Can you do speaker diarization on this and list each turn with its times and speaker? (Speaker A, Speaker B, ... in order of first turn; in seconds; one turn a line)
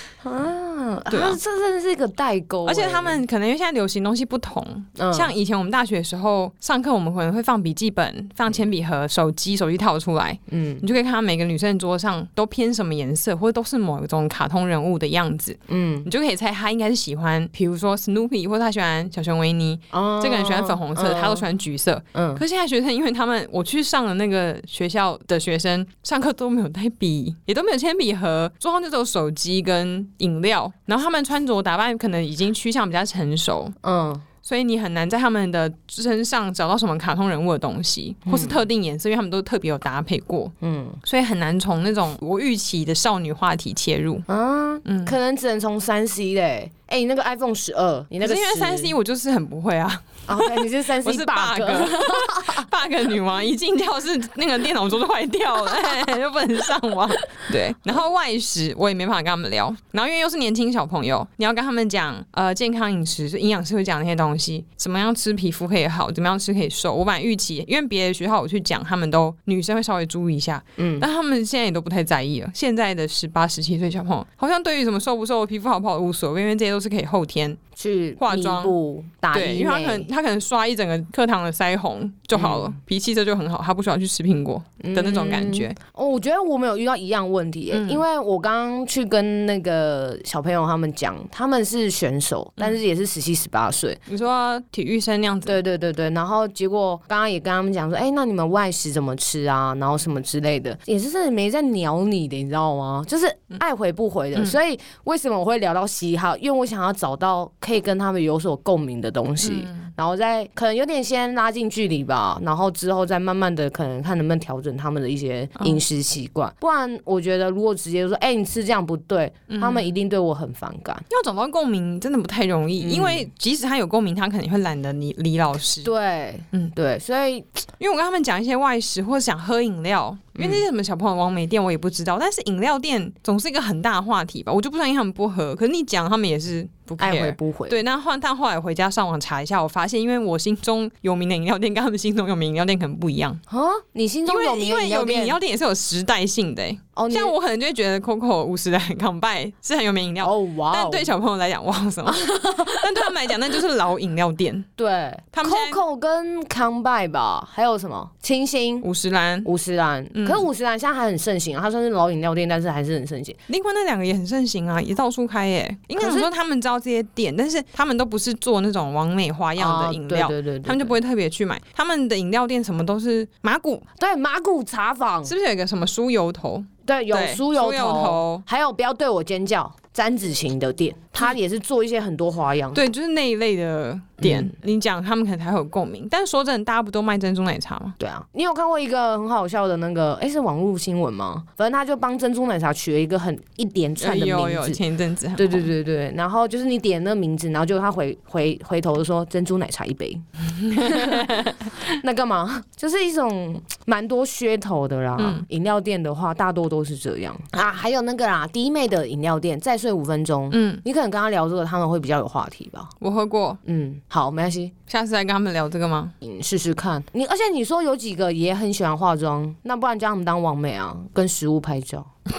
Speaker A: 0.2-3.2
Speaker B: 1.1-1.4
Speaker B: 2.7-33.8
Speaker A: 5.0-5.3
Speaker A: 10.5-10.9
Speaker A: 15.7-16.1
Speaker A: 19.9-21.5
Speaker A: 22.1-22.4
Speaker A: 33.8-34.2
Speaker B: 34.4-44.2
Speaker A: 38.2-38.6
Speaker A: 40.6-41.0
Speaker A: 44.3-48.9
Speaker B: 44.9-45.2
Speaker B: 48.2-77.6
Speaker A: 50.3-52.7
Speaker A: 70.8-71.1
Speaker A: 77.8-80.1
Speaker B: 78.2-78.8
Speaker B: 79.3-85.8
Speaker A: 82.3-82.7
Speaker A: 84.8-94.0
Speaker B: 87.7-88.0
Speaker B: 94.1-95.6
Speaker A: 95.5-121.0
Speaker B: 109.4-109.9
Speaker B: 119.5-119.9
Speaker B: 121.1-125.9
Speaker A: 122.8-123.3
Speaker A: 125.8-127.6
Speaker B: 127.8-143.4
Speaker A: 130.4-130.6
Speaker A: 137.0-137.8
Speaker A: 143.5-145.4
Speaker B: 144.2-154.7
Speaker A: 146.9-147.3
Speaker A: 150.2-151.1
Speaker A: 152.1-153.1
Speaker A: 154.8-158.9
Speaker B: 155.3-155.8
Speaker B: 158.8-159.5
Speaker A: 159.4-163.4
Speaker B: 160.1-160.5
Speaker B: 163.5-173.9
Speaker A: 166.0-166.3
Speaker A: 169.6-171.0
Speaker A: 174.0-175.3
Speaker B: 175.2-178.4
Speaker A: 176.9-182.8
Speaker B: 182.7-188.0
Speaker A: 184.2-184.5
Speaker A: 188.0-194.8
Speaker B: 194.0-195.7
Speaker A: 195.4-212.9
Speaker B: 200.6-201.7
Speaker B: 205.2-205.4
Speaker B: 210.5-210.8
Speaker B: 213.0-213.6
Speaker A: 213.6-214.7
Speaker B: 214.9-216.1
Speaker A: 216.2-222.1